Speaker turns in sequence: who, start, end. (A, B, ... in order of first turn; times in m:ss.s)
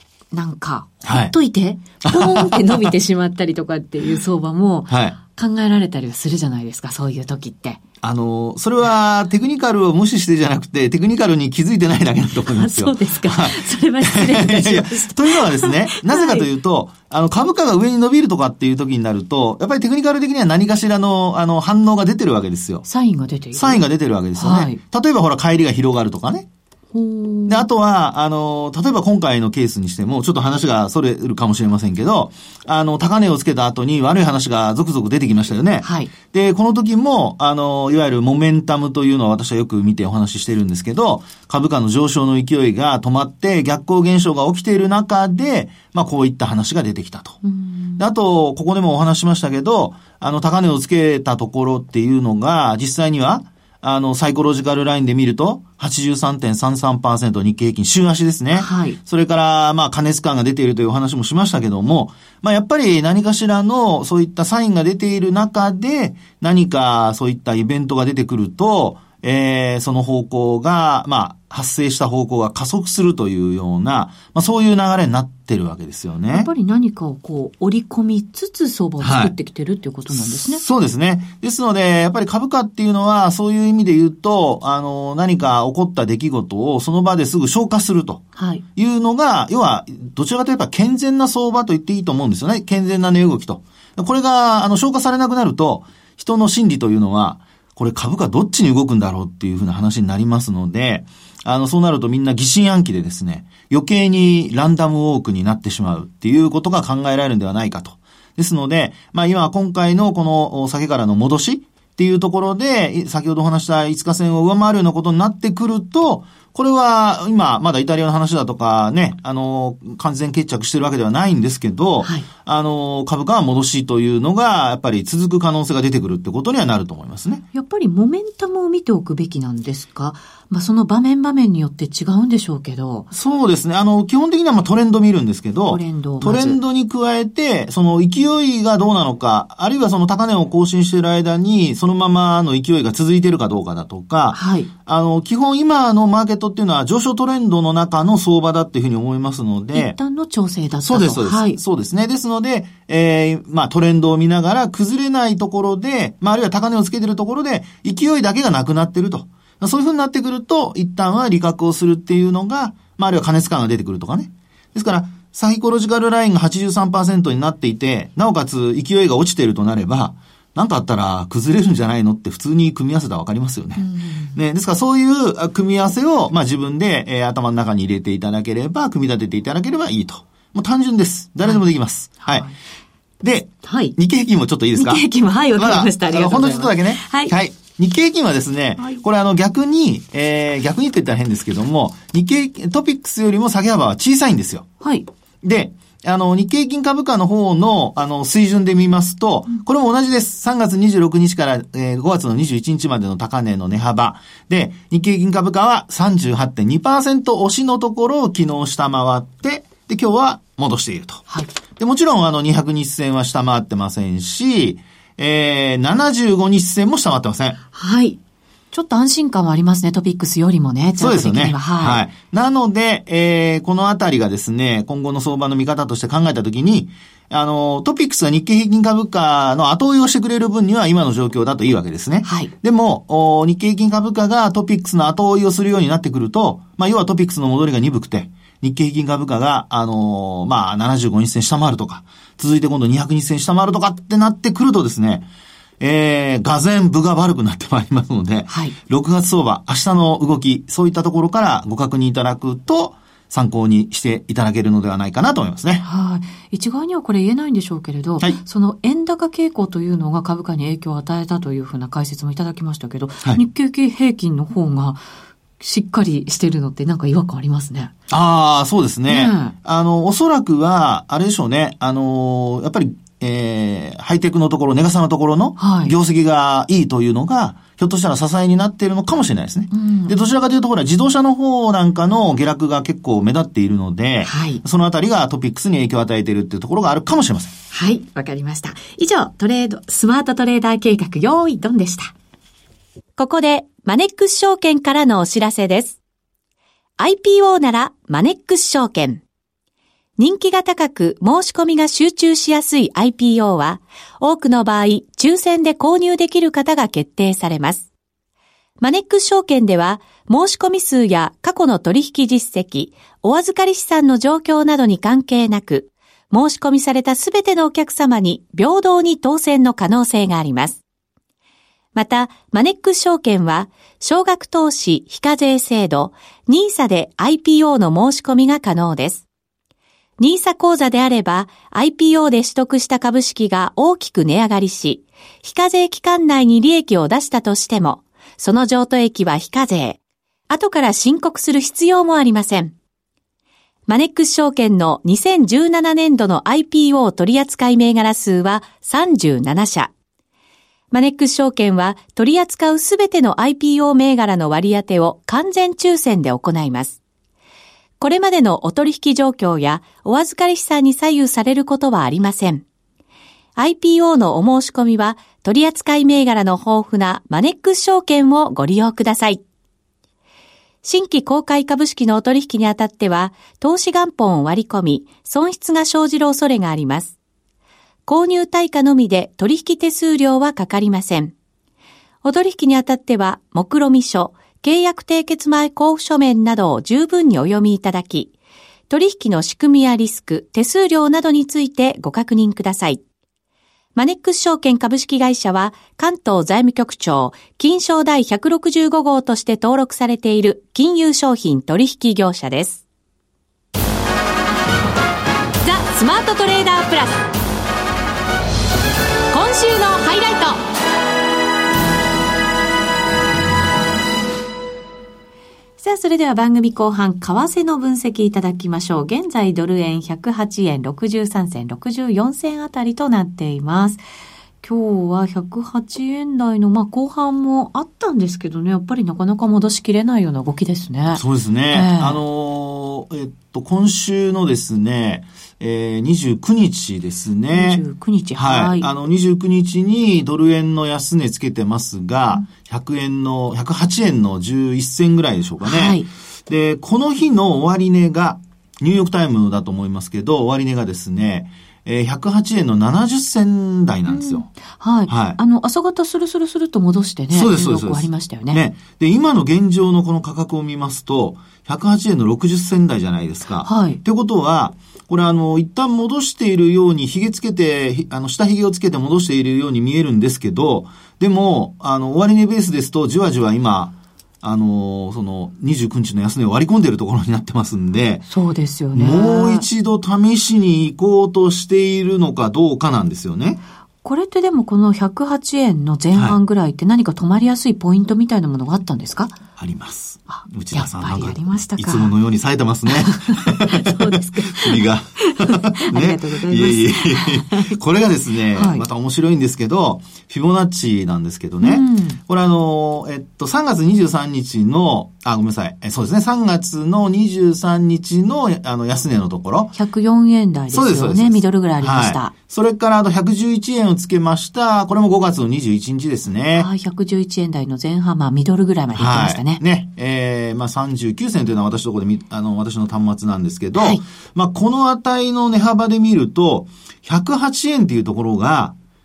0:00.3-0:07.8 A
0:01.0-0:01.3 B
0:02.0-0:02.9 B
0:04.9-0:05.2 B
0:08.0-0:22.8 B
0:12.5-0:16.5 A
0:22.8-0:23.8 A
0:23.6-0:26.5 B
0:24.4-0:24.8 A
0:26.9-0:27.7 A
0:27.5-0:47.4 B
0:35.8-0:36.1 A
0:47.4-0:48.0 A
0:48.0-1:16.5 B
0:58.6-0:59.0 A
1:16.3-1:20.6 A
1:19.0-1:19.3 B
1:20.1-1:28.2 B
1:28.4-1:28.6 A
1:28.8-2:07.4 B
2:02.0-2:02.3 A
2:07.5-2:13.1 A
2:13.1-2:30.0 B
2:15.7-2:16.6 A
2:24.3-2:24.7 A
2:29.7-2:31.6 A
2:30.8-3:02.5 B
2:53.8-2:54.3 A
3:02.2-3:02.5 A
3:03.2-3:05.0 B
3:03.6-3:03.9 A
3:04.8-3:07.3 A
3:05.6-3:14.7 B
3:14.8-3:15.1 A
3:15.4-3:31.2 B
3:31.8-3:37.6 B
3:37.7-3:38.2 A
3:38.7-3:42.0 A
3:41.0-4:05.3 B
3:52.2-3:52.5 A
4:05.8-4:15.8 B
4:08.5-4:08.8 A
4:15.8-4:25.0 A
4:25.6-4:27.9 A
4:28.1-4:47.5 B
4:29.1-4:29.5 A
4:35.6-4:35.9 A
4:39.7-4:40.2 A
4:44.2-4:44.6 A
4:47.7-4:52.1 A
4:53.2-4:56.0 A
4:57.0-4:59.2 A
5:00.2-5:07.9 A
5:08.8-5:20.8 A
5:22.0-5:29.3 A
5:30.2-5:42.8 A
5:43.9-5:49.9 A
5:50.9-5:57.0 A
5:58.0-6:02.6 A
6:03.6-6:09.4 A
6:10.8-6:17.2 A
6:18.1-6:21.3 A
6:22.2-6:28.3 A
6:28.9-6:33.0 A
6:34.0-6:42.8 A
6:45.6-6:47.3 A
6:49.3-6:50.6 A
6:55.8-7:04.0 A
7:04.6-7:12.2 A
7:11.2-7:17.8 B
7:17.5-7:18.9 A
7:18.4-7:34.5 B
7:25.6-7:26.1 A
7:34.1-7:38.6 A
7:35.1-7:35.4 B
7:37.3-7:58.3 B
7:43.6-7:44.0 A
7:58.3-7:59.7 A
7:59.0-8:03.6 B
8:04.0-8:09.4 A
8:09.6-8:29.8 B
8:10.3-8:12.1 A
8:12.9-8:17.8 A
8:18.5-8:18.8 A
8:21.6-8:22.2 A
8:29.7-8:32.3 A
8:30.7-8:36.7 B
8:36.6-8:39.6 A
8:39.0-8:48.8 B
8:43.8-8:44.0 A